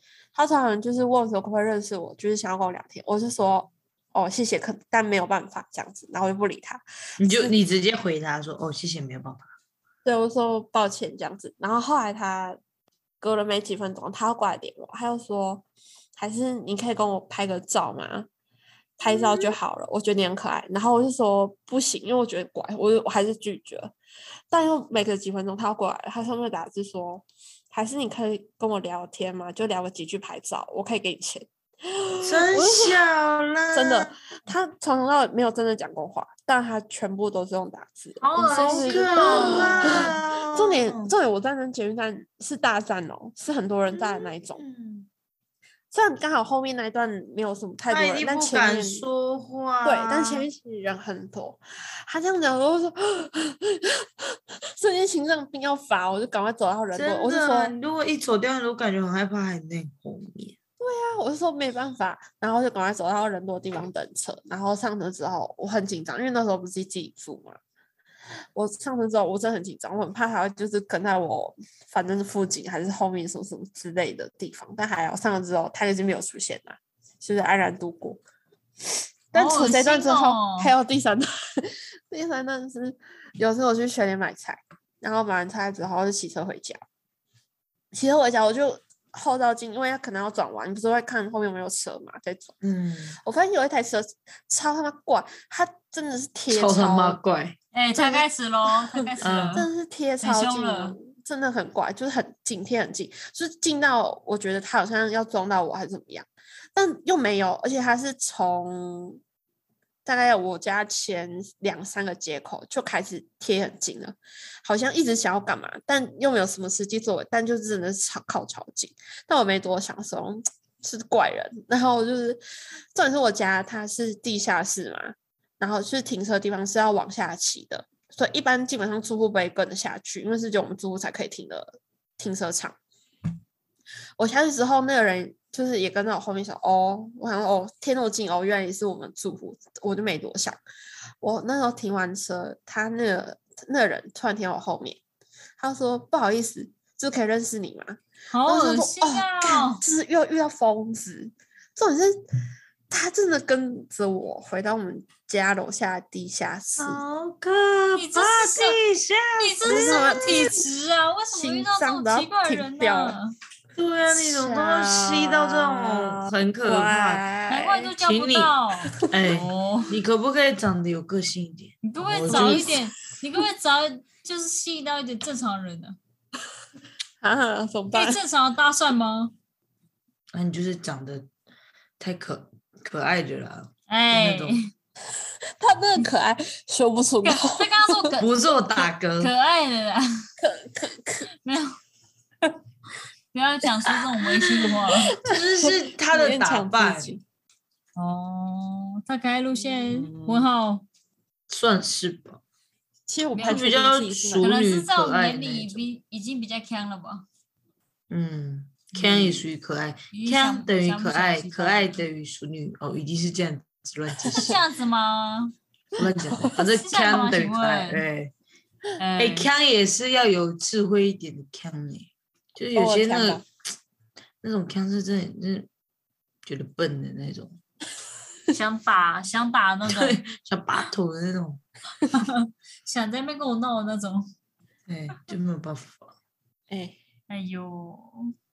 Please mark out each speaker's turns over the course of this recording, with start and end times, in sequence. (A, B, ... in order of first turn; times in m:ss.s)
0:00.3-0:07.5 A
0:07.2-0:09.5 B
0:10.0-0:12.6 A
0:13.2-0:15.6 A
0:16.2-0:18.3 A
0:19.0-0:23.9 A
0:19.1-0:19.5 B
0:24.5-0:33.0 A
0:32.2-0:34.1 B
0:33.7-0:44.6 A
0:38.2-0:40.2 C
0:38.4-0:41.1 B
0:43.9-0:45.1 B
0:45.9-0:49.0 A
0:47.9-0:50.4 B
0:49.8-0:57.7 A
0:56.9-1:00.6 B
1:00.8-1:07.6 A
1:08.5-1:18.2 A
1:19.3-1:26.8 A
1:19.3-1:20.7 C
1:27.9-1:32.6 A
1:32.6-1:33.2 B
1:33.2-1:37.2 A
1:36.5-1:37.6 B
1:37.7-1:39.7 C
1:38.0-1:38.2 A
1:39.2-1:39.6 B
1:39.5-1:49.2 A
1:40.2-1:41.0 C
1:50.0-2:02.4 A
2:02.9-2:12.8 A
2:14.2-2:20.6 A
2:21.2-2:25.0 A
2:25.6-2:32.2 A
2:28.3-2:29.8 C
2:32.9-2:37.0 A
2:36.8-2:40.5 B
2:38.0-2:38.8 C
2:39.4-2:43.3 C
2:39.7-2:40.6 A
2:41.3-2:43.2 A
2:43.8-2:47.2 B
2:44.1-2:47.9 A
2:47.5-2:49.9 C
2:48.0-2:48.5 B
2:49.1-2:52.7 B
2:51.8-2:56.0 C
2:52.3-2:52.8 A
2:57.2-2:58.2 A
2:57.9-2:59.3 C
3:00.3-3:01.3 B
3:02.0-3:04.6 B
3:03.9-3:04.7 C
3:05.6-3:08.1 A
3:07.2-3:08.3 C
3:08.2-3:09.3 B
3:09.2-3:10.2 C
3:10.4-3:11.3 A
3:11.4-3:11.8 C
3:13.3-3:15.2 C
3:14.9-3:17.2 A
3:15.2-3:17.2 B
3:18.0-3:20.8 C
3:19.8-3:20.5 B
3:21.5-3:22.4 B
3:23.1-3:24.5 A
3:23.3-3:23.6 C
3:23.4-3:25.8 B
3:24.4-3:27.2 C
3:28.1-3:34.5 B
3:28.9-3:29.4 C
3:30.1-3:32.0 C
3:34.3-3:35.5 C
3:36.0-3:38.3 B
3:36.0-3:36.6 A
3:36.7-3:38.0 C
3:39.0-3:39.5 C
3:39.2-3:43.4 B
3:42.7-3:43.4 A
3:44.4-3:45.7 B
3:46.4-3:47.6 B
3:48.5-3:50.2 C
3:49.9-3:51.6 B
3:52.1-3:54.3 C
3:54.9-3:56.1 B
3:56.7-3:57.0 A
3:57.3-3:58.2 C